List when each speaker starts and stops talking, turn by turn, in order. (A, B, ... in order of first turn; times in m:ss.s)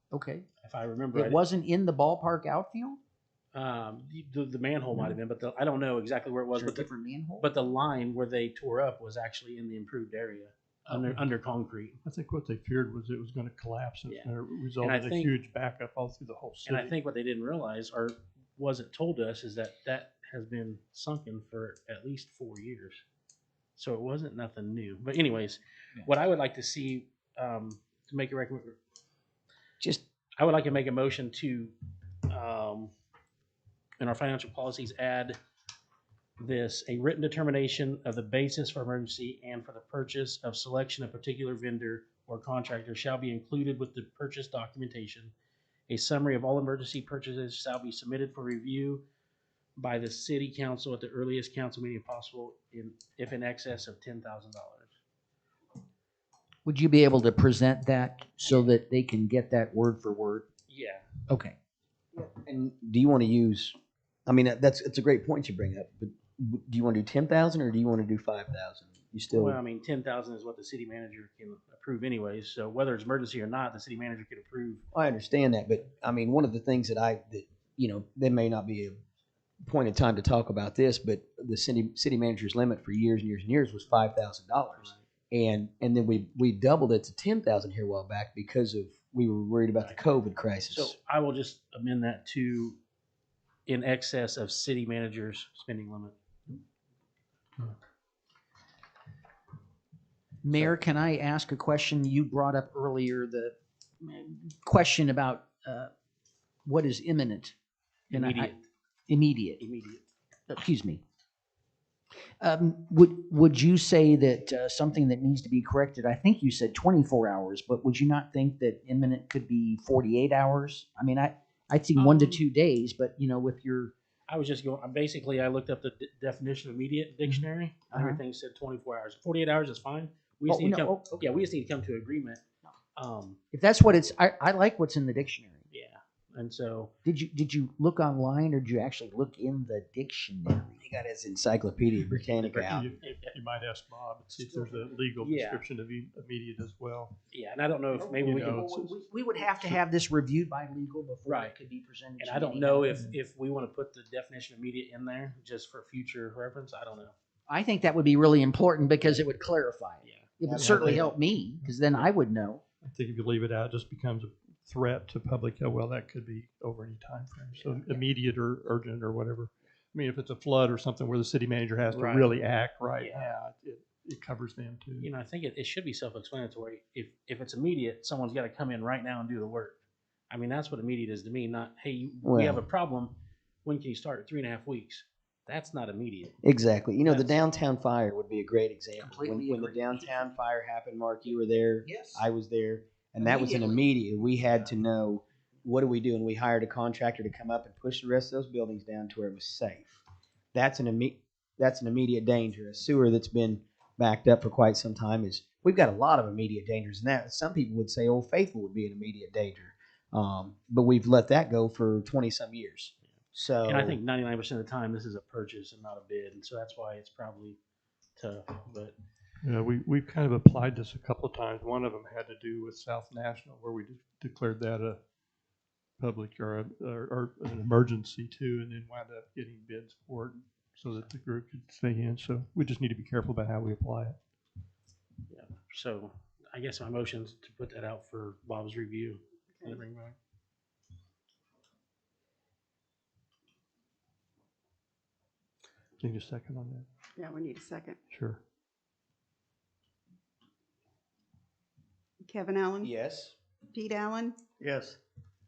0:00.1-0:00.5 A
0:00.6-0:01.4 B
0:01.1-0:03.0 A
0:03.5-0:06.9 B
0:06.5-0:07.5 A
0:07.4-0:12.0 B
0:10.9-0:11.2 C
0:12.0-0:16.9 C
0:14.8-0:15.3 B
0:16.6-0:23.0 B
0:23.8-0:28.8 B
0:30.4-0:31.7 B
0:32.3-0:32.9 B
0:34.0-0:35.4 B
0:36.4-0:45.3 B
0:45.9-0:49.0 B
0:49.8-0:54.9 B
0:56.6-1:00.4 A
0:58.4-0:58.7 B
1:00.7-1:01.0 B
1:01.3-1:01.6 A
1:02.1-1:09.6 D
1:09.3-1:14.8 B
1:14.9-1:19.0 D
1:19.6-1:30.9 D
1:29.8-1:30.0 B
1:30.7-1:32.8 B
1:33.7-1:36.2 B
1:40.4-1:45.9 A
1:46.6-1:47.5 A
1:48.1-1:48.6 B
1:48.1-1:48.6 A
1:49.1-1:49.6 A
1:49.6-1:50.0 B
1:50.5-1:51.0 A
1:52.4-2:03.9 A
2:02.0-2:02.4 B
2:04.3-2:12.4 B
2:07.2-2:08.2 A
2:10.5-2:11.2 A
2:13.0-2:13.4 B
2:13.5-2:15.6 A
2:15.7-2:16.9 B
2:17.0-2:20.8 A
2:20.8-2:22.8 D
2:22.4-2:23.3 B
2:22.6-2:27.1 C
2:25.2-2:25.6 B
2:27.3-2:28.6 B
2:27.9-2:33.0 A
2:28.2-2:29.8 C
2:31.2-2:31.5 B
2:32.2-2:37.1 B
2:32.9-2:33.2 C
2:37.5-2:42.6 A
2:40.0-2:40.3 B
2:40.4-2:41.1 D
2:40.5-2:41.1 C
2:41.6-2:42.1 C
2:42.8-2:55.1 C
2:51.9-2:52.2 B
2:53.0-2:53.3 B
2:55.0-2:59.8 B
3:00.3-3:06.3 B
3:02.2-3:02.6 D
3:06.4-3:20.0 D
3:07.0-3:07.4 B
3:09.0-3:10.3 A
3:11.8-3:12.2 A
3:13.2-3:13.8 A
3:20.5-3:34.0 D
3:33.6-3:37.6 B
3:38.2-3:38.9 B
3:39.4-3:45.0 C
3:46.0-3:54.2 C
3:55.3-4:00.2 B
3:59.6-3:59.8 E
4:06.0-4:06.8 C
4:07.2-4:08.0 E
4:08.1-4:08.4 C
4:12.2-4:12.9 E
4:12.8-4:13.3 D
4:13.7-4:14.4 E
4:14.6-4:15.0 D